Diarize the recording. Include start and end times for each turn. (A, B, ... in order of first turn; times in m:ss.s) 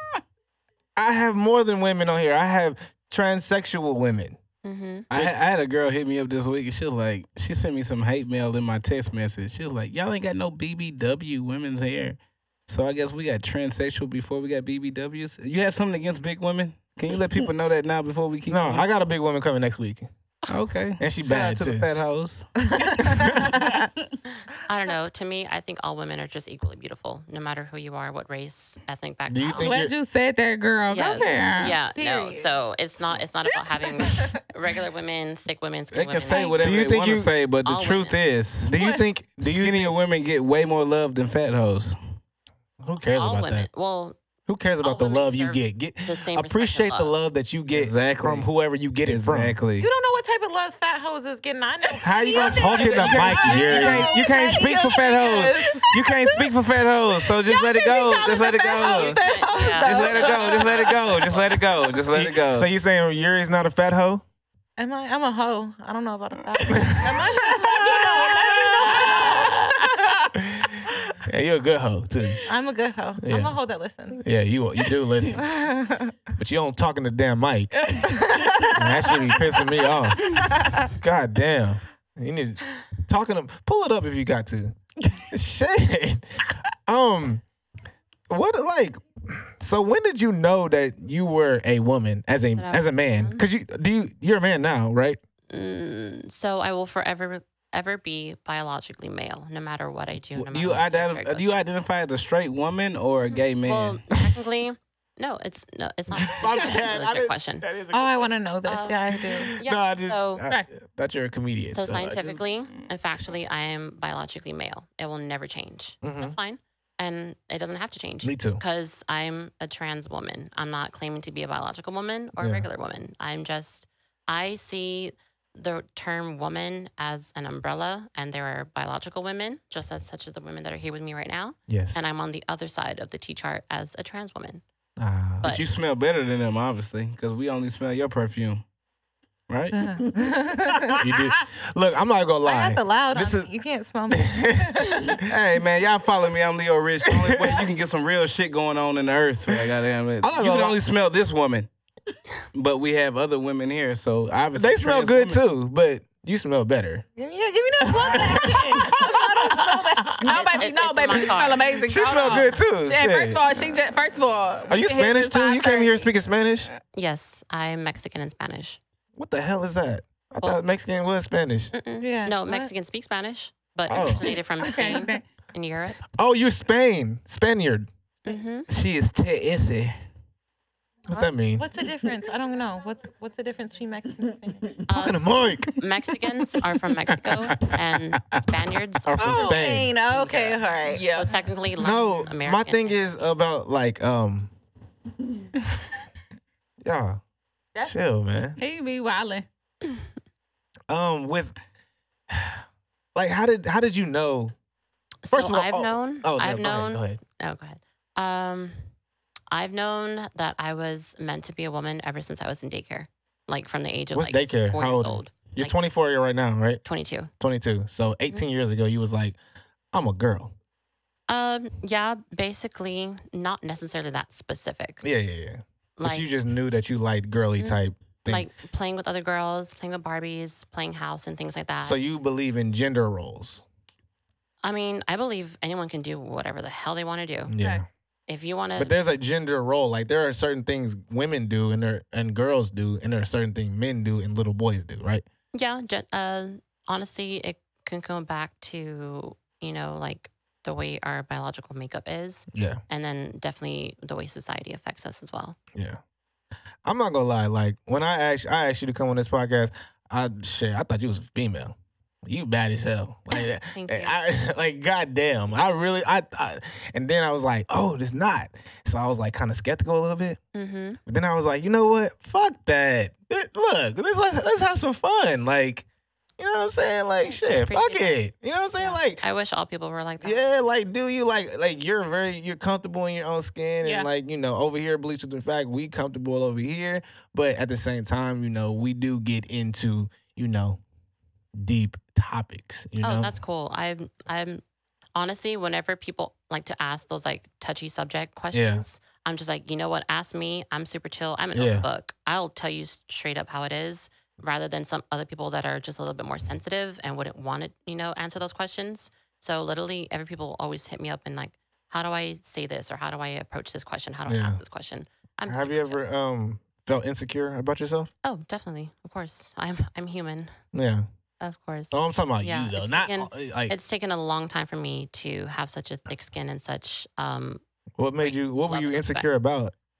0:01.0-0:04.4 A
0:04.6-0:05.1 B
0:05.1-0:18.8 C
0:18.5-0:20.1 A
0:20.5-0:22.5 C
0:21.0-0:21.8 A
0:22.9-0:23.8 D
0:23.2-0:23.5 A
0:24.6-0:29.8 B
0:29.3-0:29.9 A
0:29.5-0:31.7 E
0:30.9-0:36.6 B
0:31.9-0:32.6 D
0:34.0-0:34.4 D
0:35.9-0:38.9 C
0:36.3-0:36.7 D
0:36.6-0:37.3 A
0:37.6-0:38.2 B
0:38.6-0:39.9 A
0:38.7-0:39.0 E
0:39.4-0:42.0 C
0:42.8-0:43.7 A
0:43.0-0:44.2 B
0:44.5-0:49.6 A
0:44.8-0:47.1 B
0:47.7-0:48.5 C
0:49.0-0:49.9 C
0:49.8-0:56.6 D
0:52.0-0:59.2 C
0:52.3-0:54.2 A
0:57.2-1:01.6 D
0:58.8-1:00.7 E
0:58.8-1:01.6 B
0:59.8-1:02.7 C
1:02.1-1:04.2 A
1:04.8-1:09.7 D
1:06.6-1:07.3 C
1:06.7-1:07.3 A
1:07.7-1:09.5 E
1:08.1-1:09.2 C
1:11.2-1:12.4 A
1:12.4-1:14.2 D
1:13.2-1:13.6 A
1:14.1-1:15.4 A
1:15.3-1:16.2 D
1:16.4-1:17.9 A
1:17.8-1:18.5 E
1:18.4-1:19.6 D
1:18.7-1:27.4 A
1:20.5-1:20.8 D
1:28.3-1:35.2 A
1:32.6-1:33.4 B
1:35.5-1:41.4 B
1:40.4-1:44.0 C
1:43.3-1:47.6 B
1:46.1-1:48.3 A
1:47.9-1:49.5 D
1:48.6-1:49.0 B
1:49.1-1:52.4 A
1:49.6-1:50.4 B
1:51.7-2:14.6 B
1:56.0-1:56.4 A
1:58.2-1:58.6 A
2:02.4-2:02.7 A
2:11.7-2:12.0 A
2:15.0-2:15.5 A
2:15.4-2:18.6 C
2:19.5-2:19.8 C
2:19.7-2:20.0 A
2:20.1-2:21.0 D
2:20.7-2:21.2 E
2:21.0-2:23.5 A
2:22.4-2:25.2 D
2:24.1-2:25.1 A
2:25.3-2:31.7 C
2:27.0-2:27.6 A
2:30.2-2:30.8 A
2:32.5-2:35.4 C
2:34.5-2:37.0 A
2:37.2-2:40.4 D
2:37.9-2:39.8 A
2:40.2-2:46.1 E
2:40.3-2:41.6 B
2:41.8-2:43.5 A
2:42.1-2:42.4 B
2:44.7-2:46.7 A
2:46.9-2:48.8 B
2:49.2-2:51.7 A
2:51.7-2:56.0 B
2:52.0-2:52.7 D
2:53.9-2:54.3 A
2:54.2-2:55.2 E
2:56.2-2:57.9 A
2:58.2-2:58.7 B
2:58.7-2:59.9 C
3:01.1-3:01.6 A
3:01.5-3:04.9 D
3:04.9-3:09.5 B
3:04.9-3:05.7 A
3:09.0-3:09.9 A
3:09.2-3:11.0 D
3:10.1-3:13.3 B
3:10.9-3:11.3 E
3:11.8-3:14.5 A
3:16.8-3:17.2 A
3:17.8-3:18.6 A
3:18.6-3:19.4 E
3:20.9-3:21.5 A
3:22.3-3:22.6 A
3:23.1-3:24.5 A
3:25.2-3:28.8 B
3:25.3-3:27.2 A
3:29.5-3:35.7 B
3:34.1-3:36.8 A
3:36.8-3:37.3 B
3:37.4-3:39.4 A
3:39.9-3:40.5 A
3:41.3-3:45.0 B
3:45.0-3:48.5 A
3:46.0-3:46.3 B
3:47.6-3:52.0 B
3:51.8-3:53.6 A
3:54.6-3:57.5 B
3:57.5-3:57.8 A
3:58.3-3:58.9 B
3:58.8-4:05.2 A
4:05.5-4:15.6 B
4:12.5-4:12.8 A
4:15.7-4:16.0 A
4:16.8-4:30.4 A
4:23.3-4:24.1 B
4:30.5-4:31.0 B
4:31.0-4:35.8 A
4:36.4-4:39.2 A
4:37.2-4:38.2 B
4:38.8-4:40.4 B
4:40.2-4:50.8 A
4:43.8-4:44.1 E
4:51.5-4:53.3 A
4:53.0-4:54.6 B
4:55.1-5:16.0 B
4:58.5-4:58.8 A
5:01.5-5:01.8 A
5:14.3-5:14.6 A
5:15.5-5:18.1 A
5:18.2-5:20.5 B
5:20.7-5:21.0 A
5:21.4-5:27.6 B
5:21.9-5:23.7 A
5:28.0-5:29.7 A
5:28.2-5:29.3 B